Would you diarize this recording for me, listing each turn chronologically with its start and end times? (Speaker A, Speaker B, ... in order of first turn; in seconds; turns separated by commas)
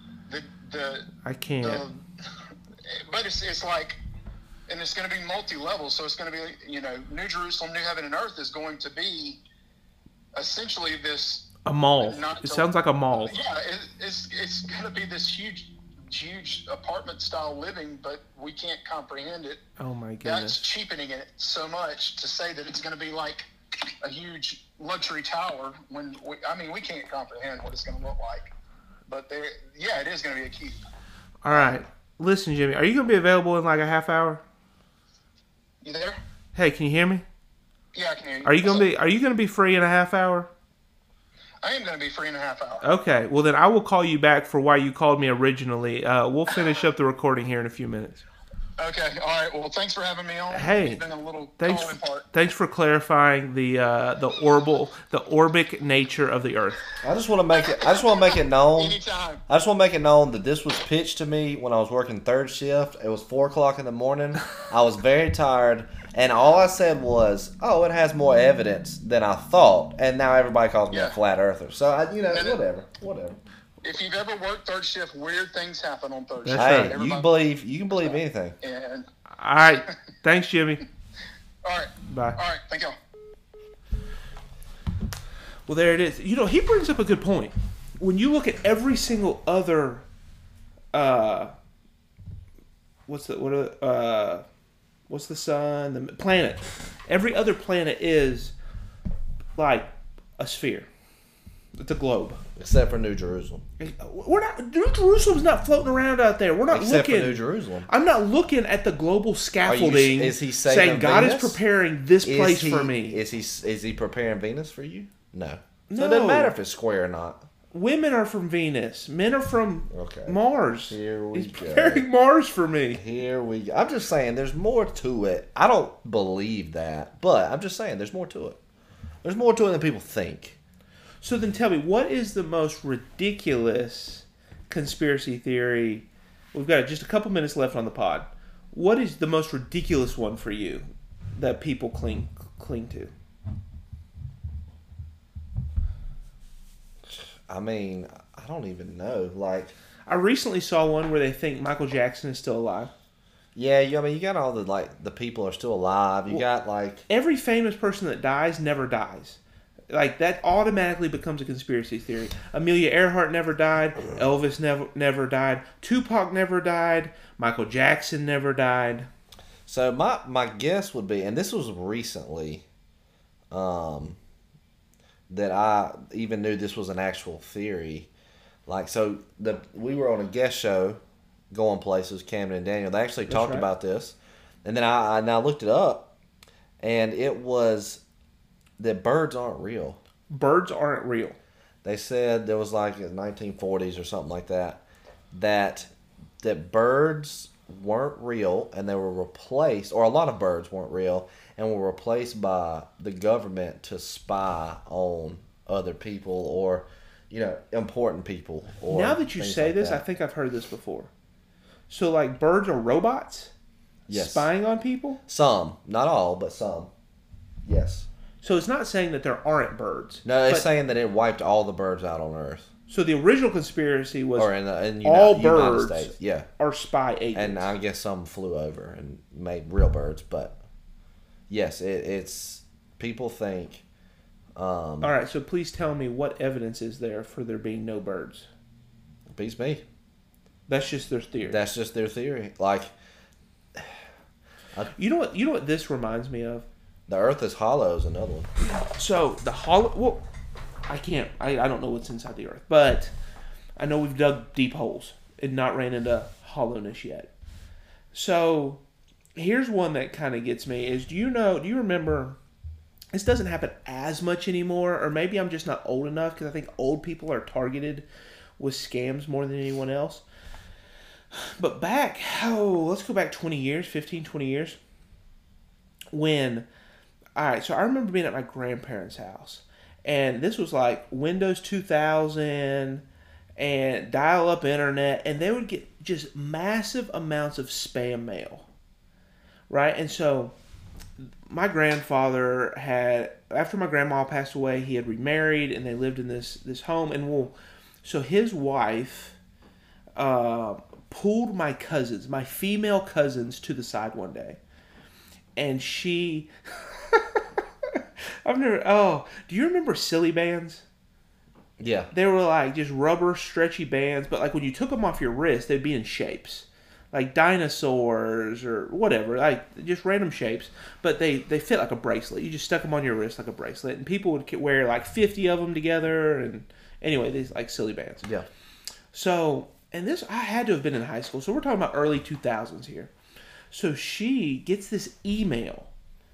Speaker A: 0.3-2.0, Speaker B: 1.2-1.9, Speaker A: 2.9-4.0, Speaker A: 4.7-9.4, Speaker A: 10.3-19.6, Speaker B: 11.7-13.4, Speaker B: 19.8-20.6, Speaker A: 20.2-23.5, Speaker A: 24.0-28.5, Speaker A: 29.1-30.8, Speaker B: 31.4-34.4, Speaker A: 35.8-36.2, Speaker B: 36.5-37.2, Speaker A: 37.9-38.9, Speaker B: 38.4-40.5, Speaker A: 41.6-42.8, Speaker B: 42.8-48.2, Speaker A: 48.8-52.2, Speaker B: 50.5-51.0, Speaker B: 51.6-56.8, Speaker C: 57.0-73.4, Speaker A: 57.5-59.4, Speaker A: 70.9-71.2, Speaker A: 72.3-72.6, Speaker A: 73.8-77.3, Speaker B: 76.5-77.0, Speaker C: 76.5-78.6, Speaker A: 77.9-79.1, Speaker B: 79.3-80.8, Speaker A: 81.6-83.0, Speaker B: 82.1-82.4, Speaker B: 85.7-90.1, Speaker B: 90.9-91.5, Speaker B: 93.1-94.5, Speaker B: 95.1-98.5, Speaker B: 99.6-100.9, Speaker B: 101.8-102.4, Speaker C: 102.6-103.6, Speaker B: 103.8-113.2, Speaker C: 106.7-107.9, Speaker C: 109.6-111.6, Speaker C: 112.2-117.5, Speaker B: 115.9-116.5, Speaker B: 117.7-123.0, Speaker C: 119.9-122.1, Speaker C: 122.9-128.6, Speaker C: 129.2-130.6, Speaker B: 131.2-143.1, Speaker C: 147.1-149.7, Speaker B: 150.1-152.9, Speaker C: 153.6-157.1, Speaker B: 157.1-169.1, Speaker C: 169.7-172.7, Speaker C: 173.5-174.2, Speaker C: 175.3-178.1, Speaker C: 178.7-181.0, Speaker C: 181.5-186.1, Speaker B: 183.3-183.7, Speaker C: 186.8-188.0, Speaker C: 188.8-190.0, Speaker B: 190.3-191.4, Speaker C: 191.8-210.0, Speaker B: 208.9-211.1, Speaker B: 211.9-213.5, Speaker C: 214.1-214.5, Speaker B: 214.1-215.2, Speaker C: 215.3-216.9, Speaker C: 217.7-218.1, Speaker B: 218.4-220.7, Speaker C: 220.2-222.7, Speaker B: 222.9-224.5, Speaker C: 224.4-226.5, Speaker B: 225.0-227.7, Speaker C: 227.3-230.6, Speaker C: 231.5-233.8, Speaker C: 234.6-235.1, Speaker B: 235.0-238.5, Speaker C: 239.3-239.8, Speaker B: 240.7-241.6, Speaker C: 241.4-242.9, Speaker C: 243.8-244.0, Speaker B: 244.9-246.7, Speaker C: 247.1-248.5, Speaker B: 248.8-250.2, Speaker B: 250.9-253.1, Speaker B: 253.8-257.3, Speaker B: 258.1-258.8, Speaker B: 259.4-262.4, Speaker B: 263.1-268.1, Speaker B: 268.6-270.2, Speaker B: 271.3-274.8, Speaker B: 276.1-276.7, Speaker B: 277.4-283.1, Speaker B: 283.6-288.7, Speaker B: 289.7-290.5, Speaker B: 291.2-299.4, Speaker B: 300.2-304.6, Speaker B: 305.6-310.8, Speaker C: 311.8-312.1, Speaker B: 312.1-328.3, Speaker B: 329.1-333.1, Speaker B: 333.7-335.9